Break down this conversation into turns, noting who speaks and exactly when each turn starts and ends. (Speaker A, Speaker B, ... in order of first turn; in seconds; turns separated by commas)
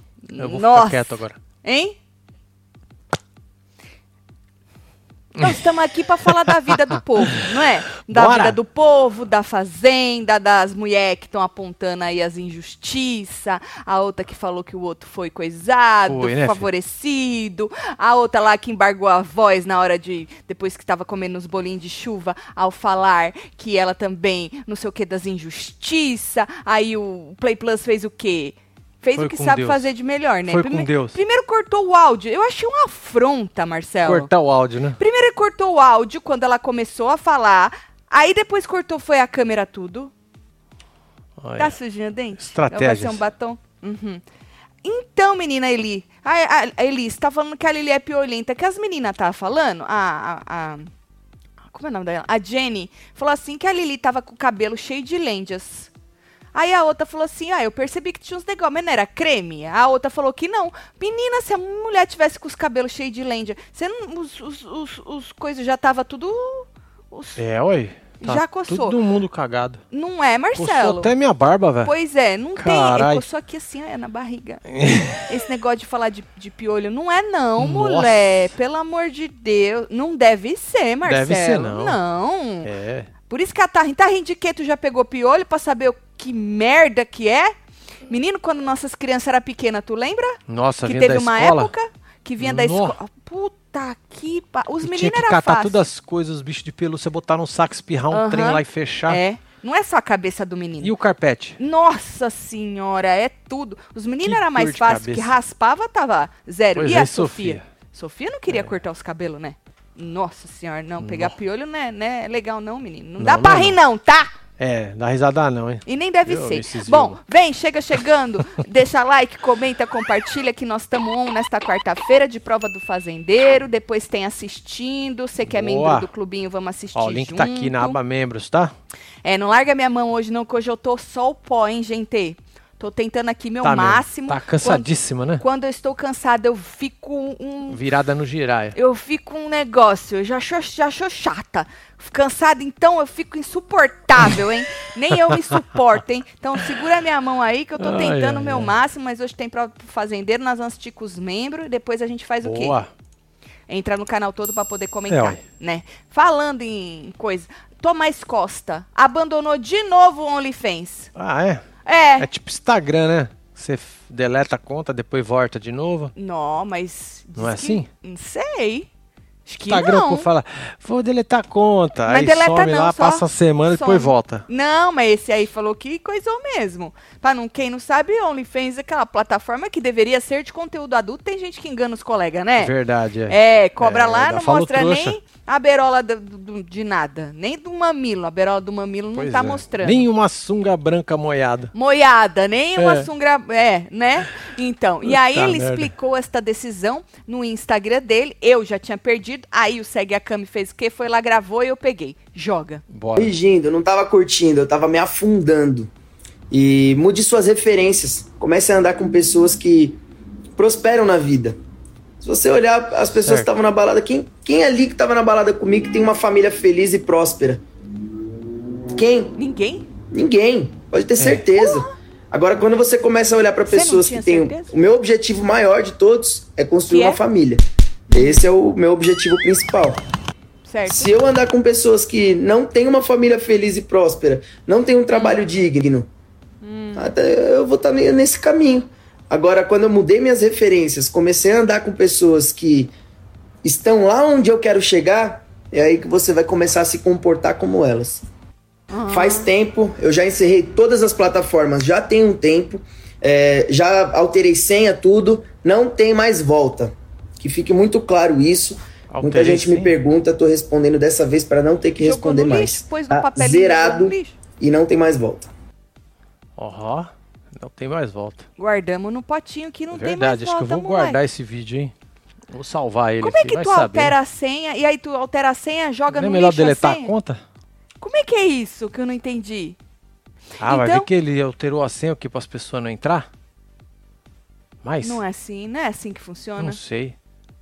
Speaker A: 0.2-1.1, Speaker B: 0.4-1.4, Speaker A: 1.6-1.9, Speaker A: 5.4-34.3, Speaker B: 6.5-7.4, Speaker B: 8.1-8.6, Speaker B: 16.1-16.7, Speaker B: 29.1-29.9, Speaker B: 30.5-31.2, Speaker B: 34.0-35.0, Speaker A: 35.0-40.1, Speaker B: 41.4-41.8, Speaker A: 41.5-44.2, Speaker B: 42.4-43.2, Speaker A: 44.8-50.9, Speaker A: 51.7-55.9, Speaker A: 56.5-67.4, Speaker B: 67.4-69.8, Speaker A: 68.2-69.0, Speaker A: 69.9-71.1, Speaker B: 70.5-71.9, Speaker A: 71.8-74.6, Speaker B: 72.6-73.2, Speaker B: 74.7-75.2, Speaker A: 75.2-82.7, Speaker B: 77.6-78.5, Speaker B: 81.0-82.0, Speaker B: 82.6-83.1, Speaker A: 83.3-87.5, Speaker A: 88.1-95.8, Speaker B: 90.5-91.7, Speaker B: 92.4-93.0, Speaker B: 94.8-99.2, Speaker A: 98.1-100.9, Speaker B: 100.8-101.6, Speaker A: 101.6-114.3, Speaker B: 104.2-105.4, Speaker B: 106.8-107.6, Speaker B: 111.0-111.3, Speaker B: 113.2-113.8, Speaker B: 114.6-117.2, Speaker A: 115.8-128.0, Speaker B: 125.5-126.1, Speaker B: 126.9-128.7, Speaker A: 129.2-134.9, Speaker B: 133.6-135.4, Speaker A: 135.4-137.8, Speaker B: 137.7-138.8, Speaker A: 138.7-152.8, Speaker B: 147.8-148.7, Speaker B: 152.4-152.9, Speaker A: 153.7-161.1, Speaker B: 155.1-155.4, Speaker B: 161.2-161.6, Speaker A: 161.8-162.3, Speaker B: 162.2-166.1, Speaker A: 166.1-168.9, Speaker B: 167.4-167.9, Speaker B: 169.4-174.4, Speaker A: 169.6-170.3, Speaker A: 172.1-182.7, Speaker B: 182.6-185.2, Speaker A: 183.3-190.0, Speaker B: 189.1-191.7, Speaker A: 191.7-202.8, Speaker B: 192.8-193.1, Speaker B: 195.1-195.9, Speaker B: 202.9-203.3, Speaker C: 203.2-205.9, Speaker C: 206.5-210.0, Speaker C: 210.6-211.6, Speaker C: 212.2-217.6, Speaker B: 213.2-213.5, Speaker C: 218.9-219.3, Speaker A: 219.4-219.9, Speaker C: 220.1-230.0, Speaker B: 221.2-221.5, Speaker A: 221.6-221.9, Speaker A: 223.7-224.7, Speaker A: 226.9-227.2, Speaker A: 228.1-228.4, Speaker A: 230.6-231.1, Speaker C: 230.9-236.1, Speaker A: 235.1-235.4, Speaker A: 236.6-237.1, Speaker C: 236.9-242.9, Speaker C: 243.6-248.2, Speaker A: 248.9-249.5, Speaker C: 249.1-265.5, Speaker B: 259.1-259.9, Speaker A: 262.0-264.4, Speaker B: 266.6-268.4, Speaker A: 268.6-271.2, Speaker B: 269.9-271.9, Speaker B: 272.5-274.1, Speaker A: 273.2-277.1, Speaker B: 276.1-277.4, Speaker A: 278.0-279.8, Speaker A: 280.6-281.1, Speaker B: 280.6-283.3, Speaker B: 284.8-285.2, Speaker A: 285.0-286.8, Speaker B: 286.6-287.1